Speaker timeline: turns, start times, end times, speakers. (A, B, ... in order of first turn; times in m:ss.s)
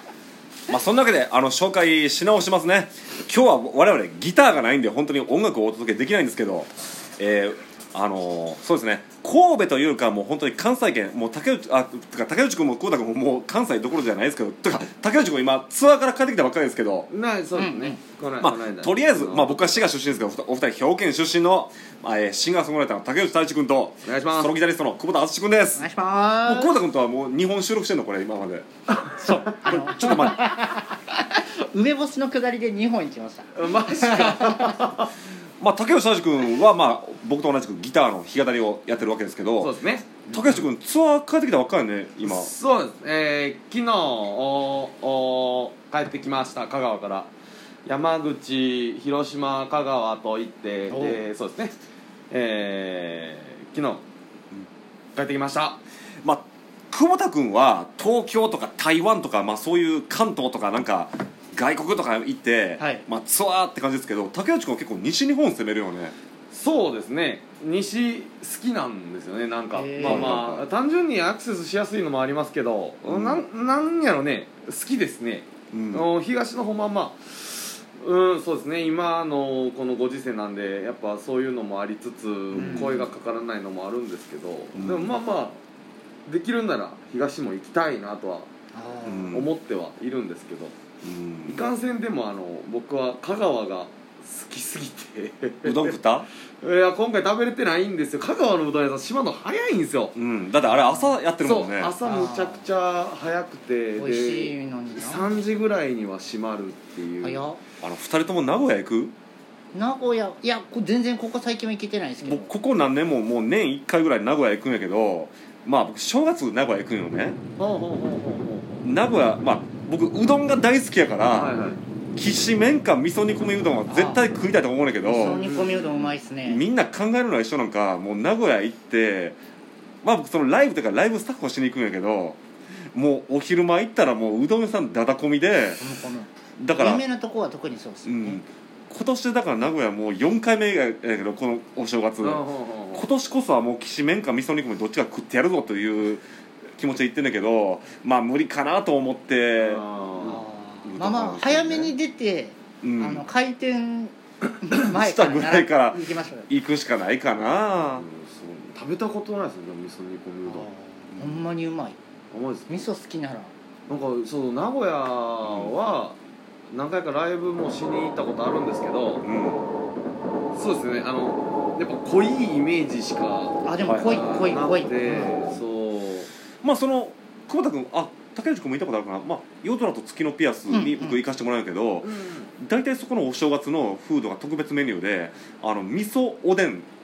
0:00.7-0:17.1 A
0:17.1-0:19.7 B
0:17.6-0:18.0 C
0:18.4-0:25.8 A
0:24.0-0:24.5 B
0:25.8-0:26.7 C
0:26.4-0:28.6 A
0:29.0-0:29.5 B
0:29.2-0:34.8 C
0:29.7-0:30.5 A
0:33.5-0:35.1 B
0:35.6-0:39.7 A
0:39.6-0:40.1 B
0:40.3-0:40.6 C
0:40.3-0:42.5 A
0:42.2-0:47.3 B
0:47.8-0:51.7 B
0:50.9-0:51.2 C
0:52.3-0:54.0 B
0:55.2-0:55.8 B
0:56.2-1:06.1 A
1:02.8-1:03.0 C
1:06.5-1:25.6 B
1:09.7-1:10.4 C
1:10.0-1:10.7 A
1:13.0-1:13.4 A
1:15.7-1:16.0 A
1:22.5-1:23.0 A
1:22.5-1:23.1 C
1:24.8-1:25.1 A
1:26.2-1:28.5 B
1:28.7-1:29.4 C
1:29.1-1:29.5 A
1:29.3-1:30.7 B
1:31.0-1:31.6 A
1:31.5-1:36.0 B
1:35.6-1:36.3 A
1:36.6-1:40.1 B
1:40.2-1:41.9 A
1:40.7-1:41.1 C
1:41.4-1:47.4 B
1:42.0-1:42.6 C
1:44.0-1:45.3 C
1:47.2-1:47.6 C
1:47.8-1:49.1 A
1:49.7-1:52.5 C
1:52.2-1:57.4 A
1:57.6-1:58.8 B
1:58.8-2:01.5 A
2:01.3-2:01.8 B
2:02.2-2:05.5 A
2:03.9-2:04.2 C
2:05.0-2:06.6 C
2:05.1-2:06.1 B
2:06.4-2:09.4 A
2:10.0-2:12.4 A
2:12.9-2:15.8 A
2:15.8-2:18.4 C
2:16.6-2:17.0 A
2:18.0-2:26.2 A
2:22.2-2:23.0 B
2:26.8-2:29.8 A
2:29.6-2:30.4 B
2:30.2-2:36.5 C
2:30.8-2:31.9 A
2:32.8-2:33.2 A
2:34.8-2:38.0 A
2:37.9-2:40.7 B
2:40.5-2:42.0 C
2:41.1-2:41.4 A
2:42.3-2:42.8 B
2:42.7-2:43.5 C
2:43.9-2:46.2 B
2:45.4-2:45.7 A
2:46.7-2:49.2 B
2:49.2-2:49.7 A
2:50.5-2:56.3 B
2:53.6-2:55.3 C
2:53.8-2:54.3 A
2:56.6-3:06.9 A
3:00.7-3:01.2 C
3:02.0-3:02.5 B